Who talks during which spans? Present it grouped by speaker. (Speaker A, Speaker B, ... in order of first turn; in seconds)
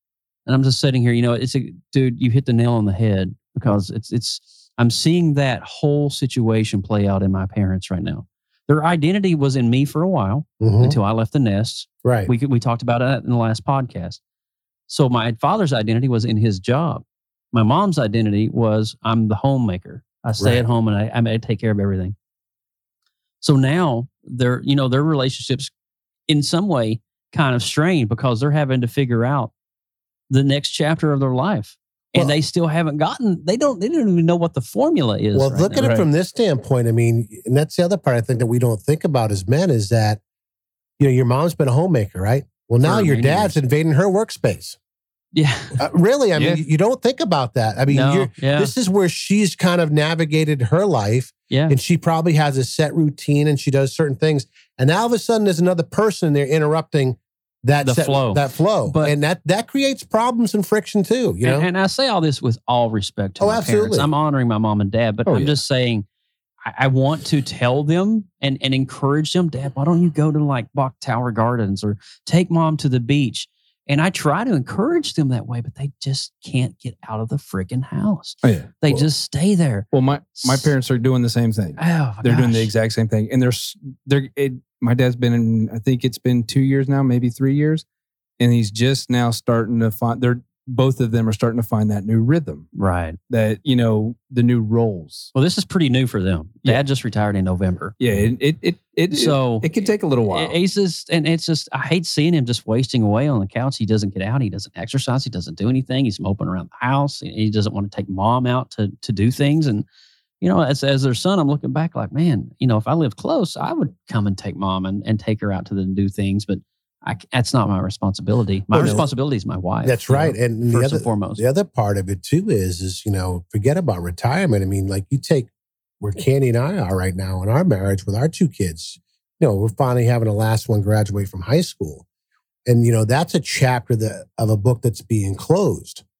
Speaker A: 0.5-14.2, 14.9-22.1, 23.4-25.7, 26.3-29.5, 30.3-35.9, 42.8-43.5, 45.3-45.8, 47.9-48.7, 51.5-51.8, 57.8-59.1, 61.4-66.0, 66.7-79.8, 80.4-80.7, 81.8-82.7, 92.7-93.2, 95.3-97.9, 99.1-99.7, 100.2-109.8, 110.4-121.4
Speaker B: 10.6-10.9, 12.0-12.3, 35.3-40.2, 41.0-44.8, 45.8-61.7, 63.4-64.1, 118.7-119.1, 119.8-125.5, 126.0-132.0, 132.7-136.0
Speaker C: 35.8-36.1, 46.3-46.6, 65.2-65.6, 78.4-79.0, 79.9-87.8, 88.4-92.7, 93.3-95.3, 98.0-100.5